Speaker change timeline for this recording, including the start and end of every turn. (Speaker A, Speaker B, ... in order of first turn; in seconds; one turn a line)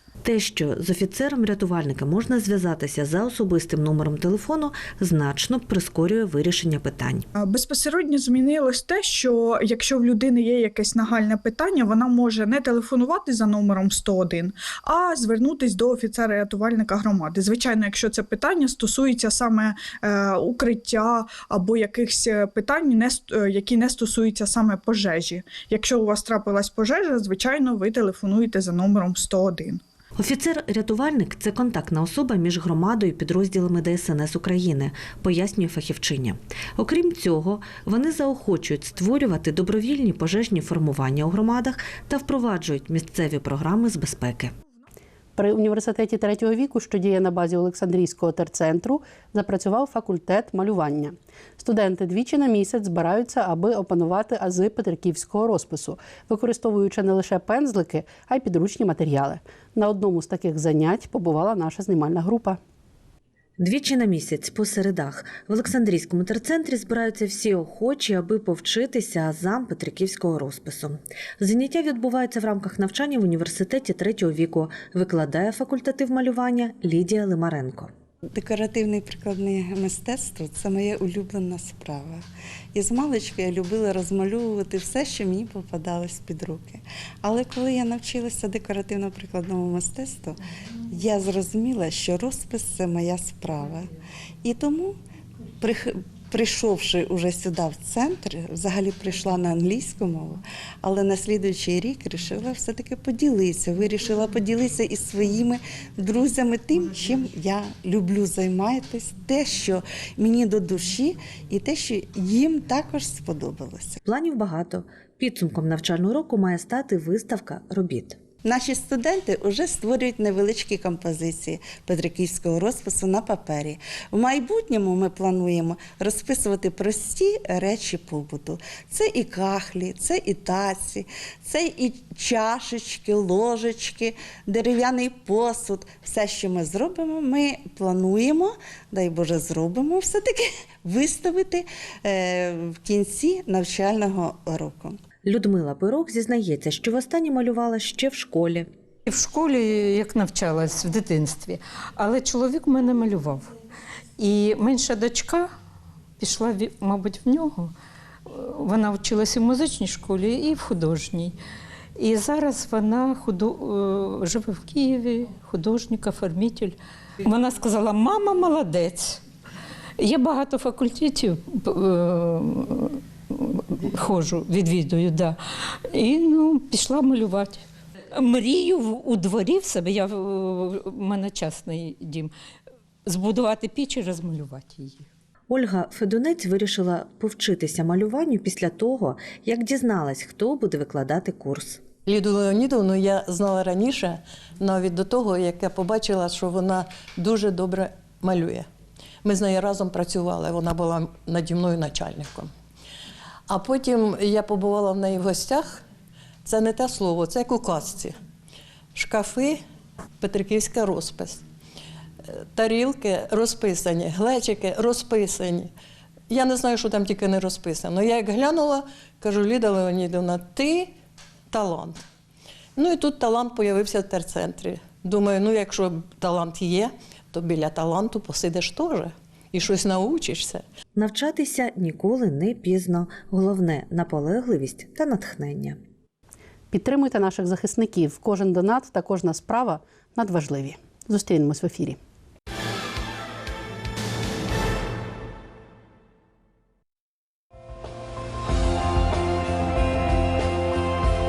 Speaker A: 0.2-7.2
Speaker B: 7.4-29.8
Speaker A: 30.2-44.5
Speaker C: 45.4-62.6
Speaker A: 63.6-77.9
Speaker D: 78.3-82.2
Speaker D: 82.7-90.4
Speaker D: 90.9-93.9
Speaker D: 94.4-94.9
Speaker D: 95.6-114.0
Speaker A: 114.0-118.2
Speaker D: 118.4-145.0
Speaker A: 145.2-148.7
Speaker E: 149.1-153.5
Speaker E: 154.2-155.5
Speaker E: 156.2-157.7
Speaker E: 158.3-161.3
Speaker E: 162.0-169.2
Speaker E: 170.0-175.4
Speaker E: 175.9-177.6
Speaker E: 178.1-182.3
Speaker E: 183.1-185.0
Speaker A: 185.5-191.8
Speaker F: 192.1-198.7
Speaker F: 199.2-202.5
Speaker F: 203.5-205.8
Speaker F: 206.4-208.2
Speaker F: 208.9-209.6
Speaker F: 210.2-211.4
Speaker F: 212.3-215.7
Speaker F: 216.3-220.9
Speaker F: 221.5-222.0
Speaker F: 222.8-230.6
Speaker A: 230.9-235.8
Speaker C: 236.7-242.0